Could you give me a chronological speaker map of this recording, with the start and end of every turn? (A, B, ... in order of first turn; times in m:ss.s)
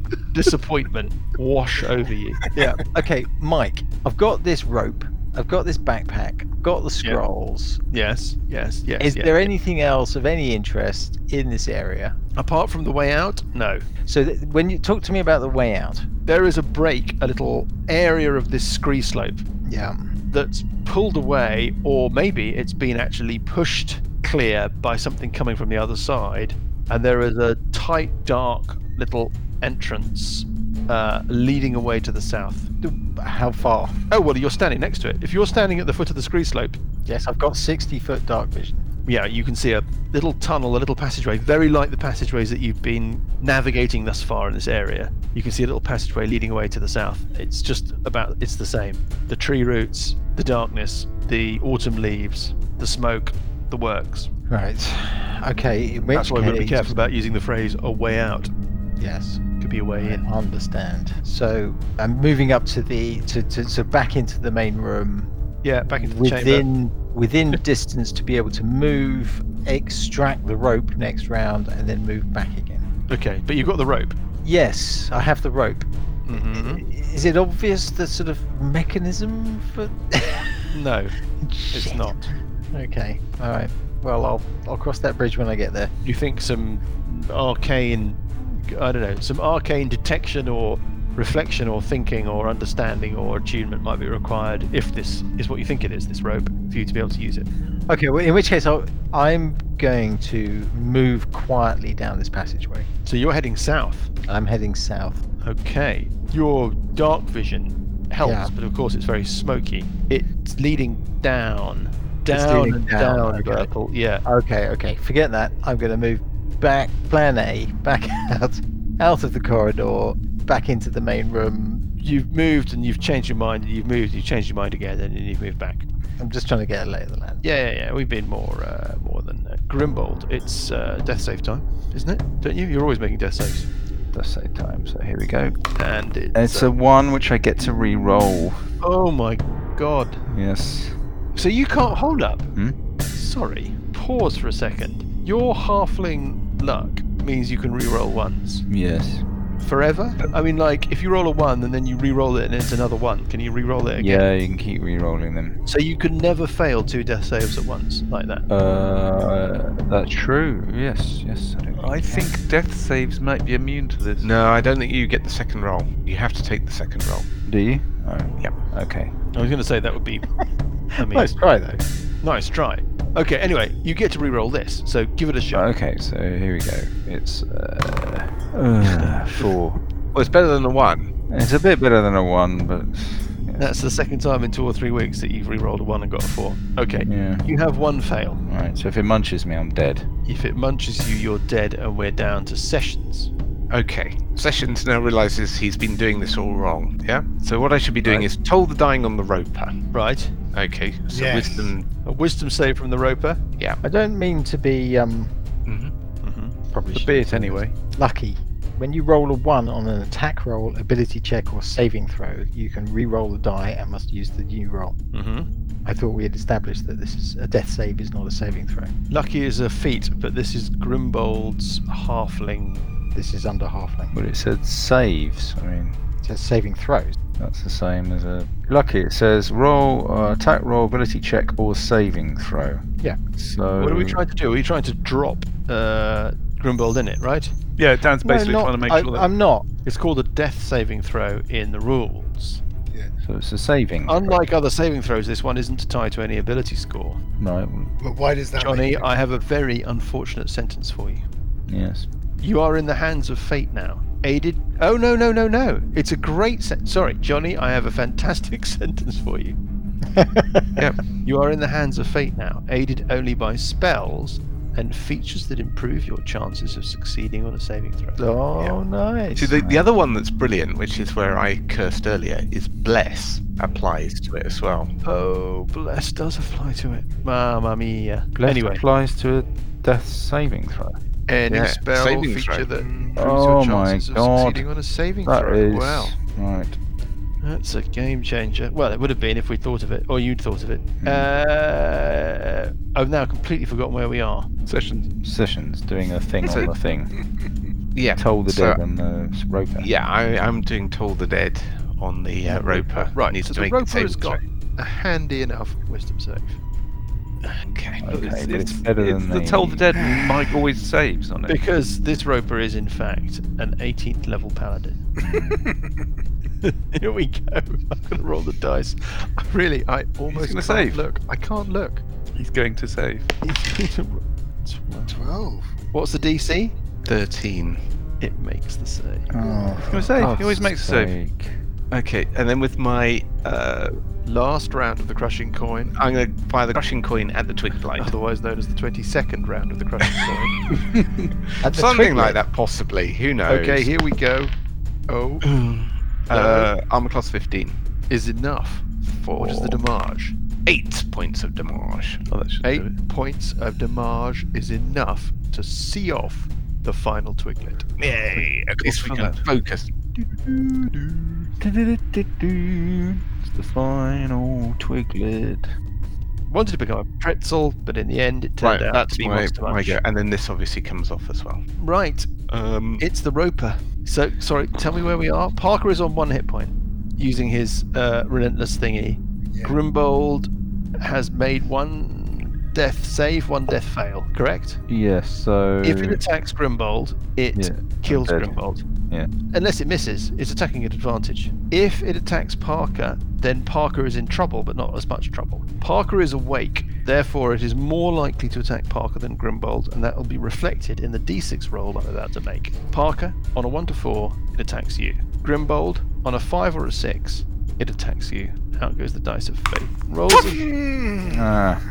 0:00.3-0:02.6 A
0:02.6-0:07.8 B
0:07.9-0:09.5 A
0:09.0-0:12.2 B
0:12.4-0:13.9 A
0:14.1-0:16.1 B
0:16.3-0:19.4 A
0:19.7-0:20.1 B
0:20.3-0:32.7 A
0:32.8-0:34.0 B
0:34.1-0:36.8 A
0:37.1-0:38.9 B
0:39.1-0:54.3 A
0:54.5-0:56.9 B
0:56.1-0:58.5 A
0:59.0-0:59.4 B
0:59.6-1:00.3 A
1:00.0-1:05.3 B
1:05.6-1:06.7 A
1:05.9-1:12.9 B
1:13.1-1:14.2 A
1:14.4-1:20.6 B
1:16.3-1:16.8 A
1:20.7-1:21.2 A
1:21.4-1:22.2 B
1:21.7-1:22.3 A
1:22.7-1:25.9 B
1:26.0-1:37.5 A
1:37.9-1:42.9 B
1:43.1-1:44.1 A
1:44.3-1:45.2 B
1:45.4-1:54.2 A
1:48.2-1:48.5 B
1:52.3-1:53.7 B
1:54.2-2:01.8 B
2:02.0-2:05.9 A
2:06.2-2:07.4 B
2:07.4-2:13.7 A
2:14.1-2:15.6 C
2:15.8-2:16.7 A
2:16.3-2:18.6 C
2:18.8-2:20.2 A
2:20.3-2:21.0 C
2:21.4-2:22.5 A
2:23.1-2:28.6 A
2:28.7-2:29.2 C
2:29.6-2:34.3 A
2:34.0-2:35.6 C
2:35.6-2:38.5 A
2:38.5-2:42.3 C
2:41.8-2:44.3 D
2:44.2-2:47.3 E
2:47.5-2:49.1 C
2:49.3-2:50.3 A
2:51.0-2:51.4 A
2:51.0-2:51.8 B
2:52.2-2:55.7 A
2:55.5-2:59.8 C
3:00.1-3:01.1 E
3:01.3-3:03.7 C
3:03.6-3:08.4 A
3:07.0-3:07.5 C
3:08.5-3:10.1 C
3:10.3-3:13.3 A
3:13.7-3:19.8 E
3:19.9-3:20.4 A
3:20.5-3:21.9 E
3:21.1-3:21.8 F
3:22.0-3:23.4 A
3:23.8-3:25.3 B
3:25.7-3:25.9 E
3:26.2-3:26.6 A
3:26.7-3:35.0 B
3:26.9-3:27.8 D
3:35.1-3:35.5 A
3:35.8-3:38.9 B
3:39.1-3:42.9 A
3:43.1-3:44.1 B
3:44.1-3:46.0 C
3:46.2-3:47.2 B
3:47.4-3:54.2 C
3:53.8-3:57.6 A
3:57.8-3:59.3 D
3:58.2-3:59.6 B
3:59.8-4:02.6 A
4:03.3-4:04.4 C
4:04.1-4:07.2 A
4:07.4-4:07.9 C
4:08.0-4:09.1 F
4:08.6-4:11.2 A
4:11.7-4:12.1 C
4:12.4-4:19.6 A
4:20.1-4:20.7 B
4:21.2-4:28.3 A
4:28.2-4:29.5 B
4:29.3-4:34.9 E
4:29.6-4:29.8 C
4:35.0-4:38.8 A
4:38.4-4:41.0 C
4:41.3-4:46.2 A
4:41.5-4:42.7 E
4:42.7-4:43.2 F
4:43.2-4:44.7 C
4:45.2-4:46.8 C
4:47.4-4:54.5 A
4:51.0-4:51.3 C
4:54.7-4:55.1 D
4:55.2-4:57.1 C
4:56.4-4:56.7 E
4:57.9-4:58.8 E
4:58.2-4:59.9 C
4:59.8-5:04.4 E
5:02.5-5:06.6 A
5:07.6-5:08.1 E
5:08.0-5:09.9 C
5:08.1-5:11.6 D
5:11.5-5:15.0 A
5:15.2-5:15.6 C
5:16.6-5:22.0 A
5:20.3-5:21.0 D
5:22.4-5:23.3 D
5:23.4-5:25.3 A
5:25.1-5:25.7 F
5:25.9-5:26.8 A
5:27.0-5:27.8 E
5:28.2-5:29.6 A
5:29.3-5:31.6 C
5:29.4-5:30.3 B
5:29.9-5:31.2 D
5:31.9-5:34.0 E
5:34.2-5:35.9 A
5:35.9-5:38.1 E
5:38.0-5:40.5 A
5:41.0-5:41.3 D
5:41.6-5:43.9 E
5:41.6-5:42.4 B
5:43.5-5:44.5 A
5:45.1-5:45.4 A
5:45.4-5:47.8 E
5:46.3-5:46.7 A
5:48.1-5:50.4 A
5:50.7-5:52.3 E
5:52.3-5:53.0 D
5:52.6-5:58.0 A
5:58.0-5:59.9 E
5:58.9-5:59.4 D
6:00.5-6:05.7 C
6:06.5-6:10.0 A
6:08.6-6:11.6 E
6:11.8-6:12.3 A
6:12.5-6:13.0 E
6:13.0-6:24.8 A
6:19.5-6:19.8 F
6:24.9-6:26.2 C
6:25.8-6:28.8 A
6:27.6-6:28.6 C
6:29.5-6:50.7 A
6:50.5-6:51.4 F
6:51.3-6:51.8 C